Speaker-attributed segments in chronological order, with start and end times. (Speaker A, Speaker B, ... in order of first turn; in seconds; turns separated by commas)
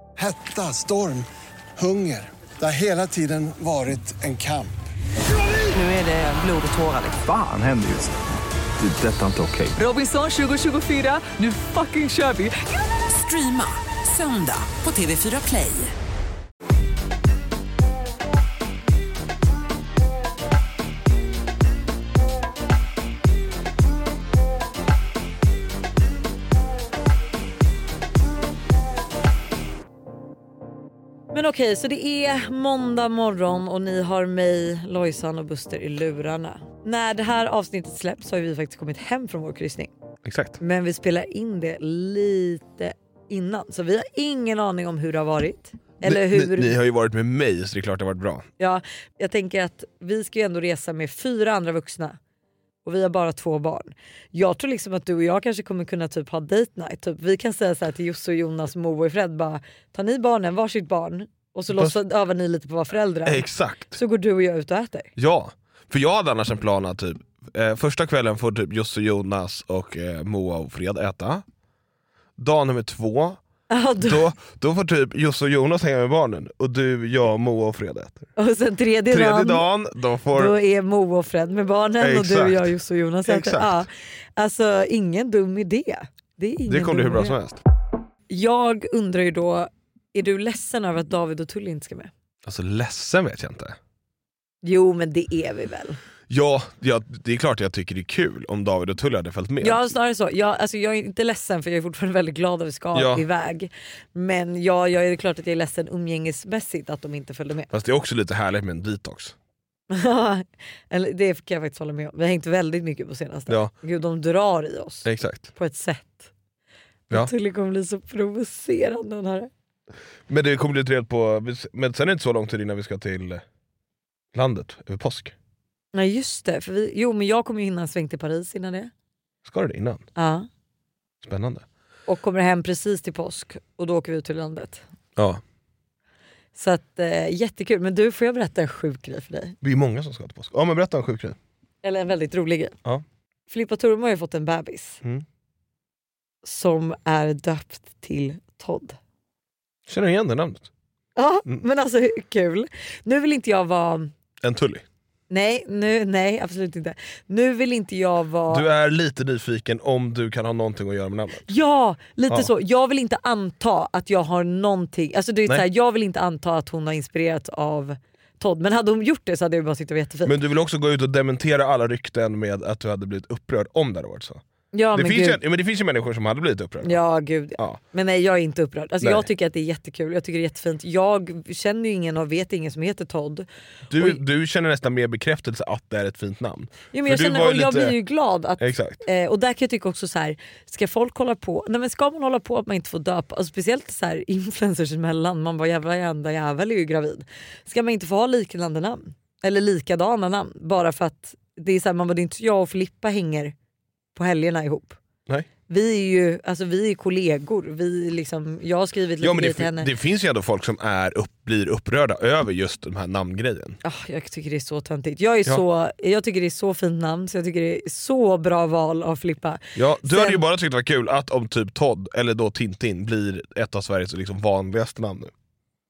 Speaker A: 0.2-1.3, Speaker A: 1.8-4.8, Speaker B: 5.7-7.2, Speaker C: 7.2-8.2, Speaker C: 8.8-9.8, Speaker B: 9.8-15.9, Speaker D: 31.3-39.9, Speaker E: 40.2-40.6, Speaker D: 40.6-46.8, Speaker E: 46.0-48.5, Speaker D: 48.6-52.2, Speaker D: 52.9-65.1, Speaker E: 63.2-64.0, Speaker E: 65.2-71.5, Speaker E: 72.4-73.4, Speaker D: 73.7-74.3, Speaker E: 74.0-78.3, Speaker D: 78.4-79.7, Speaker E: 79.1-80.5, Speaker D: 80.3-87.4, Speaker E: 82.0-83.9, Speaker E: 86.7-87.6, Speaker D: 88.3-92.1, Speaker E: 92.5-93.8, Speaker D: 94.6-96.0, Speaker E: 96.3-99.8, Speaker D: 99.6-107.7, Speaker E: 102.9-103.2, Speaker E: 107.7-109.3, Speaker D: 109.9-116.3, Speaker E: 115.0-115.5, Speaker D: 117.1-119.5, Speaker E: 120.3-123.4, Speaker E: 124.3-125.3, Speaker D: 125.9-128.9, Speaker E: 129.4-130.1, Speaker D: 130.2-130.5, Speaker E: 131.2-131.7, Speaker D: 132.1-134.8, Speaker D: 136.6-139.6, Speaker E: 139.6-141.4, Speaker D: 141.8-142.8, Speaker D: 143.5-145.0, Speaker D: 146.4-149.0, Speaker E: 149.9-150.7, Speaker D: 151.2-154.1, Speaker E: 154.4-154.8, Speaker D: 155.3-158.7, Speaker E: 158.5-161.5, Speaker D: 161.5-170.3, Speaker E: 170.2-174.4, Speaker D: 174.7-175.4, Speaker E: 174.9-177.0, Speaker D: 176.8-184.2, Speaker E: 179.0-179.3, Speaker E: 183.9-188.0, Speaker D: 186.9-203.6, Speaker E: 188.6-189.0, Speaker D: 204.2-205.0, Speaker D: 205.7-209.9, Speaker E: 209.2-213.8, Speaker D: 213.8-220.4, Speaker E: 219.8-225.3